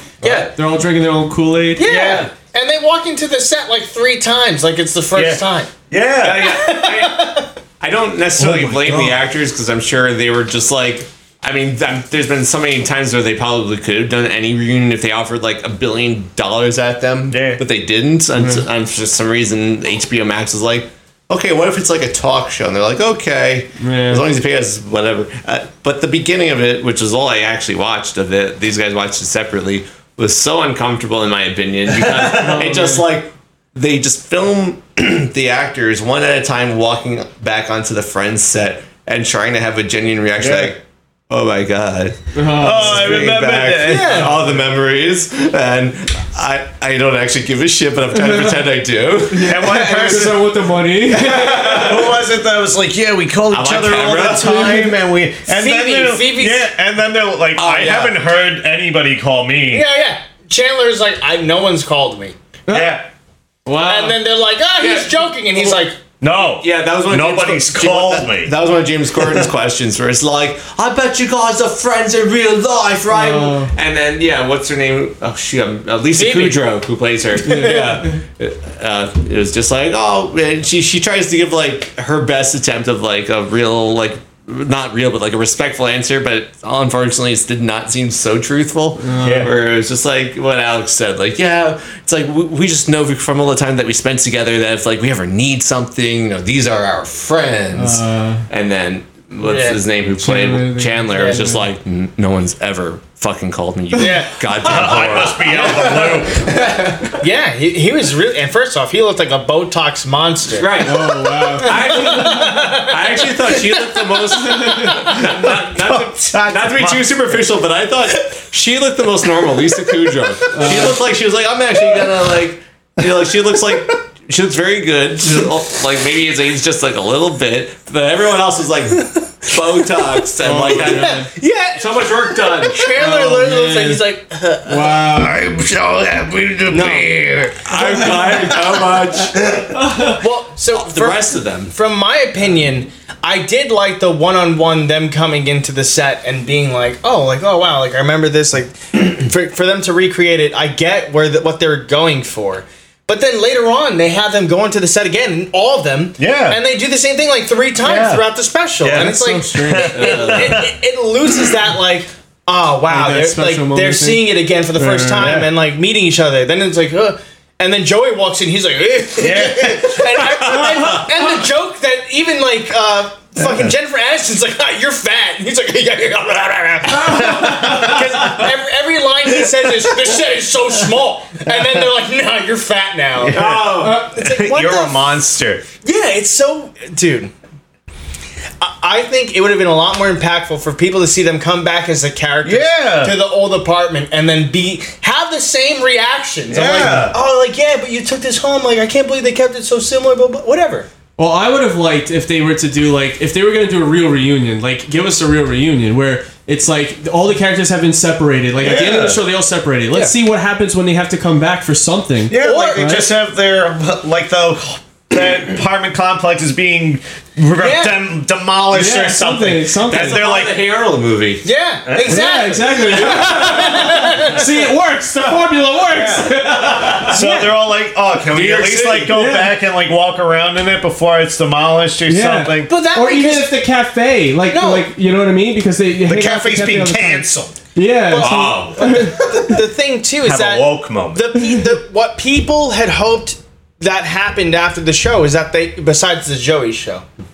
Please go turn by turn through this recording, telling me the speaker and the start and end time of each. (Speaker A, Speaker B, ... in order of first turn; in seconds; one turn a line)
Speaker A: 0.2-0.5
Speaker B: 0.2-0.5
Speaker C: 0.5-1.8
Speaker B: 1.8-5.7
Speaker D: 1.8-2.3
Speaker D: 5.1-6.8
Speaker A: 6.2-7.2
Speaker B: 6.5-7.5
Speaker A: 7.8-50.1
Speaker D: 8.4-9.2
Speaker D: 17.3-17.6
Speaker C: 18.4-18.6
Speaker C: 23.8-24.2
Speaker D: 31.9-32.6
Speaker C: 32.3-33.0
Speaker D: 40.4-40.8
Speaker C: 42.4-43.3
Speaker D: 42.5-44.4
Speaker B: 43.8-44.4
Speaker C: 48.1-48.6
Speaker C: 49.3-52.1
Speaker D: 49.4-50.5
Speaker D: 51.1-59.9
Speaker A: 51.2-52.0
Speaker A: 53.5-54.7
Speaker C: 54.4-54.9
Speaker B: 55.5-56.7
Speaker A: 57.6-58.2
Speaker B: 59.7-62.4
Speaker C: 62.7-63.0
Speaker D: 62.7-63.0
Speaker A: 63.7-64.1
Speaker C: 63.7-64.1
Speaker B: 63.9-66.0
Speaker A: 64.8-65.8
Speaker D: 66.2-68.5
Speaker A: 66.4-107.1
Speaker D: 69.2-69.5
Speaker C: 73.1-73.7
Speaker B: 76.1-76.6
Speaker C: 77.5-78.2
Speaker B: 77.5-78.0
Speaker C: 89.0-89.5
Speaker D: 89.2-89.5
Speaker C: 97.7-98.5
Speaker B: 99.4-99.8
Speaker C: 100.2-101.7
Speaker B: 101.1-101.4
Speaker B: 104.0-104.4
Speaker D: 104.6-106.5
Speaker B: 105.4-106.2
Speaker B: 107.2-115.2
Speaker A: 110.6-132.9
Speaker C: 110.8-112.3
Speaker D: 115.4-117.1
Speaker C: 120.5-121.0
Speaker C: 130.4-131.3
Speaker B: 130.8-134.6
Speaker C: 132.9-134.0
Speaker C: 134.7-135.4
Speaker D: 134.8-137.7
Speaker B: 136.7-137.1
Speaker A: 137.7-139.5
Speaker C: 137.8-138.3
Speaker D: 139.3-139.7
Speaker C: 139.7-140.2
Speaker B: 140.1-185.1
Speaker A: 140.7-141.8
Speaker D: 156.2-156.6
Speaker D: 157.8-158.3
Speaker D: 158.8-160.7
Speaker C: 158.9-160.0
Speaker A: 159.8-160.7
Speaker C: 162.9-165.5
Speaker D: 169.2-170.6
Speaker D: 177.0-178.4
Speaker C: 177.1-177.9
Speaker D: 183.2-185.6
Speaker A: 183.3-184.1
Speaker B: 185.8-187.3
Speaker B: 188.6-200.9
Speaker D: 192.4-193.2
Speaker D: 196.5-197.2
Speaker C: 201.2-213.1
Speaker D: 208.6-209.2
Speaker D: 212.3-220.6
Speaker B: 212.3-213.0
Speaker B: 217.6-218.1
Speaker C: 218.7-220.2
Speaker A: 219.9-221.5
Speaker B: 221.4-224.5
Speaker D: 221.9-222.9
Speaker C: 222.1-227.2
Speaker D: 225.9-232.7
Speaker B: 227.1-227.6
Speaker A: 228.3-229.2
Speaker C: 229.1-229.6
Speaker C: 232.1-239.3
Speaker B: 232.7-233.6
Speaker B: 234.5-234.9
Speaker D: 236.0-237.6
Speaker B: 238.1-247.1
Speaker A: 238.1-239.0
Speaker D: 240.2-241.3